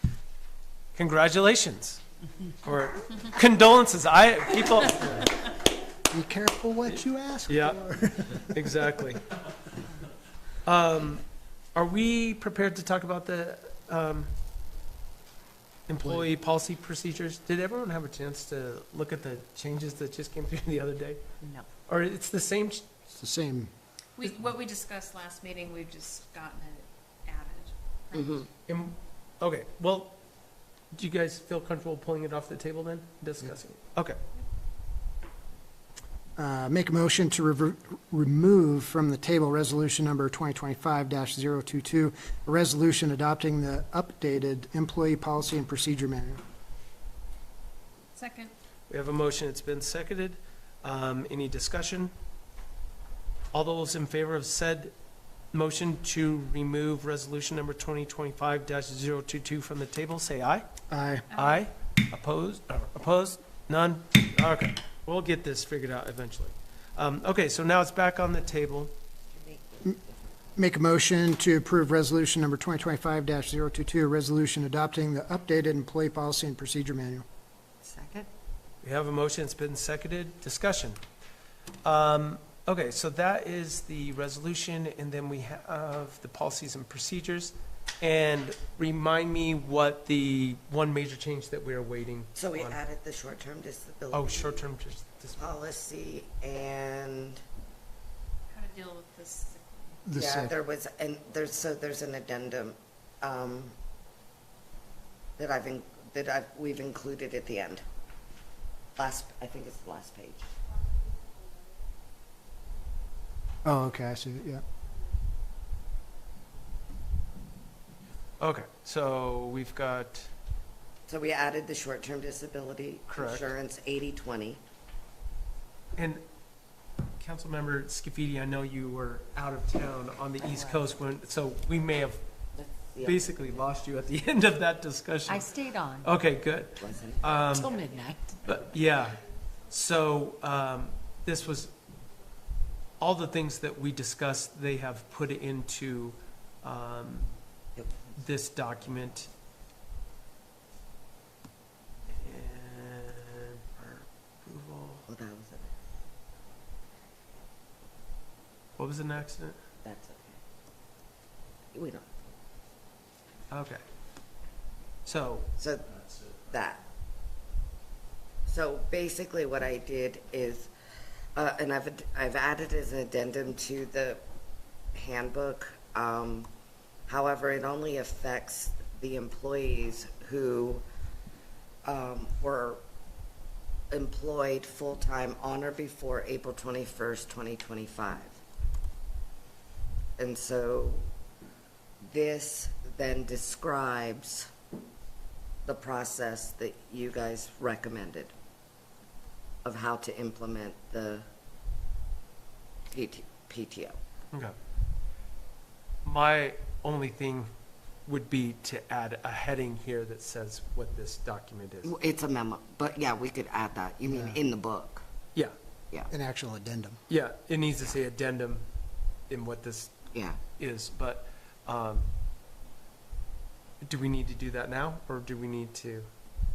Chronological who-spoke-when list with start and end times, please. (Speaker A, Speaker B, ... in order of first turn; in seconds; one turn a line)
Speaker A: 0.9-2.0
Speaker A: 2.6-5.3
Speaker B: 6.1-9.0
Speaker A: 7.5-7.8
Speaker A: 8.3-9.2
Speaker A: 10.6-11.2
Speaker A: 11.7-14.3
Speaker A: 15.9-21.2
Speaker C: 21.4-21.7
Speaker A: 21.9-22.9
Speaker B: 23.1-23.7
Speaker D: 24.2-28.5
Speaker E: 28.1-28.5
Speaker A: 28.7-30.2
Speaker A: 30.9-34.2
Speaker B: 36.4-46.4
Speaker D: 48.1-48.5
Speaker A: 48.9-52.1
Speaker A: 53.5-54.9
Speaker A: 55.5-60.6
Speaker B: 60.9-61.2
Speaker D: 61.3-61.6
Speaker A: 61.3-68.9
Speaker E: 69.3-70.3
Speaker B: 70.6-77.2
Speaker C: 77.8-78.3
Speaker A: 78.8-81.0
Speaker A: 81.8-92.8
Speaker E: 92.4-94.6
Speaker A: 94.1-95.4
Speaker E: 95.4-97.4
Speaker D: 98.5-100.0
Speaker B: 100.0-100.5
Speaker E: 100.1-103.7
Speaker E: 105.4-107.8
Speaker E: 109.0-110.5
Speaker B: 113.6-114.6
Speaker A: 118.4-120.3
Speaker E: 121.1-124.6
Speaker A: 123.1-123.5
Speaker A: 126.0-126.2
Speaker A: 127.2-132.2
Speaker E: 132.5-133.6
Speaker A: 133.0-137.8
Speaker C: 135.3-136.1
Speaker E: 136.8-137.7
Speaker C: 137.5-138.4
Speaker A: 138.4-141.7
Speaker A: 143.0-147.3
Speaker A: 148.2-149.3
Speaker A: 152.1-155.1
Speaker E: 155.1-155.7
Speaker A: 158.8-159.6
Speaker E: 159.8-160.4
Speaker E: 161.7-162.1
Speaker A: 163.5-163.8
Speaker A: 165.1-165.5
Speaker E: 165.6-166.8
Speaker E: 168.5-170.7
Speaker E: 171.3-174.2
Speaker E: 174.9-176.5
Speaker E: 177.1-180.8
Speaker E: 181.8-182.8
Speaker E: 183.9-188.4
Speaker E: 190.2-191.0
Speaker E: 192.0-194.5
Speaker E: 195.6-198.3
Speaker E: 199.6-201.2
Speaker E: 202.9-204.0
Speaker A: 206.0-207.5
Speaker A: 208.1-211.9
Speaker E: 211.8-215.0
Speaker B: 214.1-214.4
Speaker B: 216.1-217.0
Speaker A: 217.1-218.7
Speaker A: 219.3-222.1
Speaker E: 220.1-220.4
Speaker A: 223.8-226.1